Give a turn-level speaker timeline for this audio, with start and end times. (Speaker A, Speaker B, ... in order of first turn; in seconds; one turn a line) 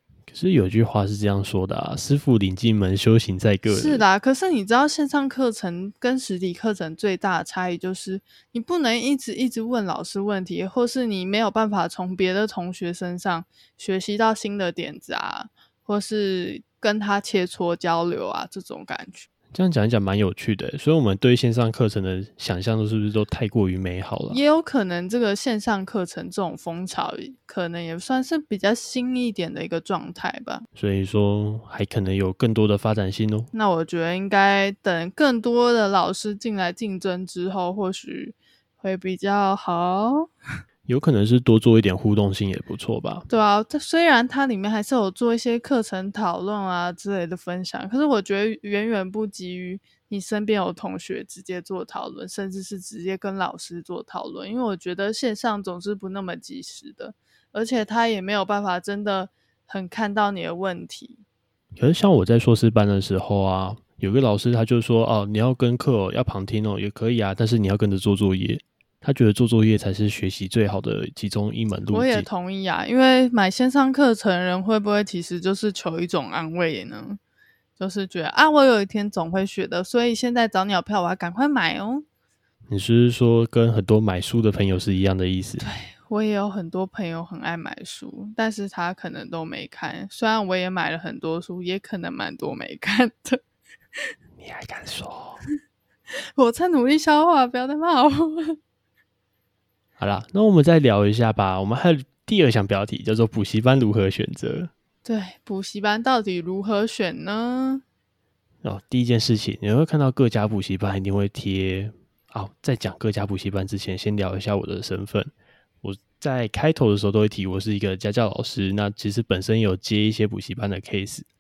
Speaker A: 0.3-4.0
Speaker B: 3.7-19.3
Speaker A: 19.5-24.4
Speaker B: 24.3-30.7
Speaker A: 30.8-33.5
Speaker B: 33.5-40.3
Speaker A: 40.9-43.3
Speaker B: 43.3-61.2
Speaker A: 61.8-72.3
Speaker B: 71.9-77.2
Speaker B: 77.8-82.0
Speaker A: 82.7-85.7
Speaker B: 85.6-93.4
Speaker A: 94.4-95.4
Speaker B: 96.4-98.6
Speaker A: 100.0-104.7
Speaker B: 105.0-107.8
Speaker A: 108.6-115.3
Speaker A: 115.8-121.3